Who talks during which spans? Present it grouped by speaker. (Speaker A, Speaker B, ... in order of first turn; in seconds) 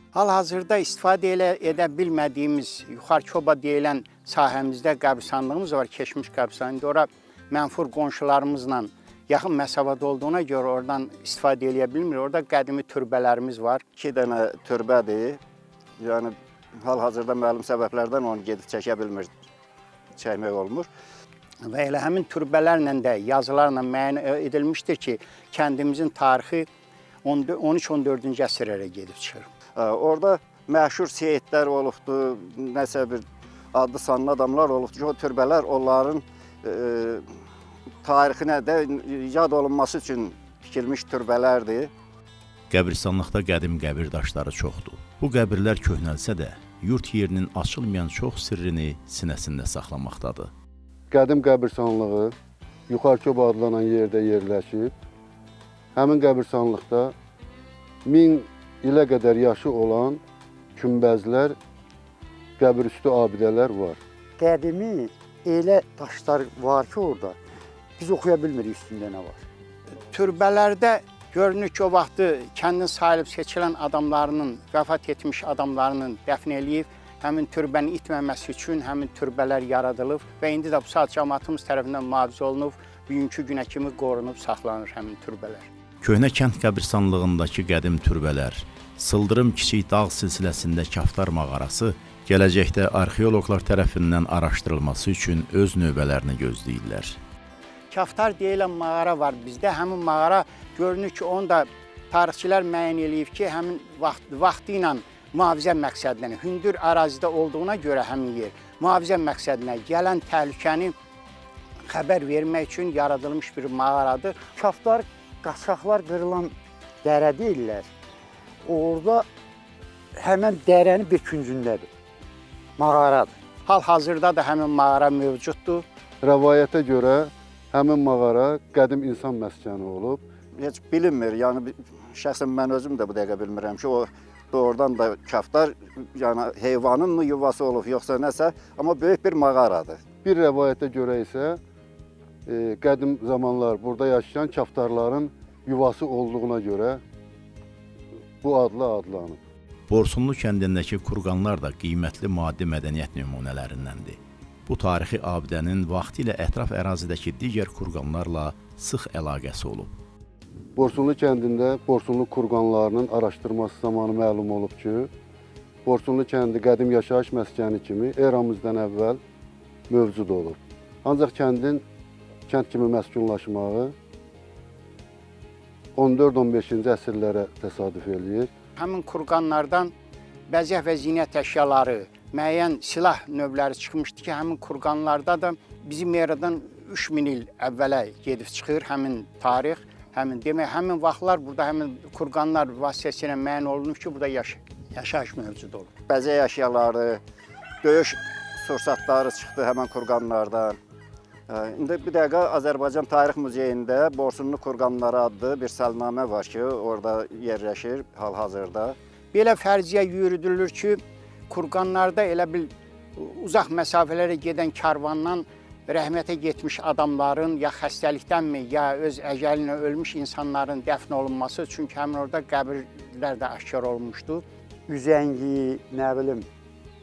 Speaker A: 0.1-13.8, 21.6-26.7, 27.2-29.5, 70.1-85.7, 97.9-110.9, 111.9-114.4, 123.7-125.8, 178.8-179.9, 180.5-195.9, 209.3-224.4
Speaker B: 14.0-15.4, 16.0-19.3, 20.1-20.9, 29.8-37.3, 38.0-41.9, 130.6-140.0, 196.1-197.2, 197.8-200.8, 201.5-209.0
Speaker C: 42.7-50.5, 86.0-97.2, 149.9-159.9
Speaker D: 51.1-52.3, 52.9-55.0, 56.0-57.1, 58.0-60.2, 60.8-61.6, 62.6-64.0, 126.2-130.2, 140.2-141.6, 142.5-147.0, 148.4-149.4, 160.8-165.1, 165.8-169.2, 169.9-171.8, 172.5-173.9, 175.9-178.5
Speaker E: 64.4-67.4, 68.0-69.4, 114.6-117.9, 118.7-119.3, 120.2-121.9, 122.8-123.4, 224.9-226.5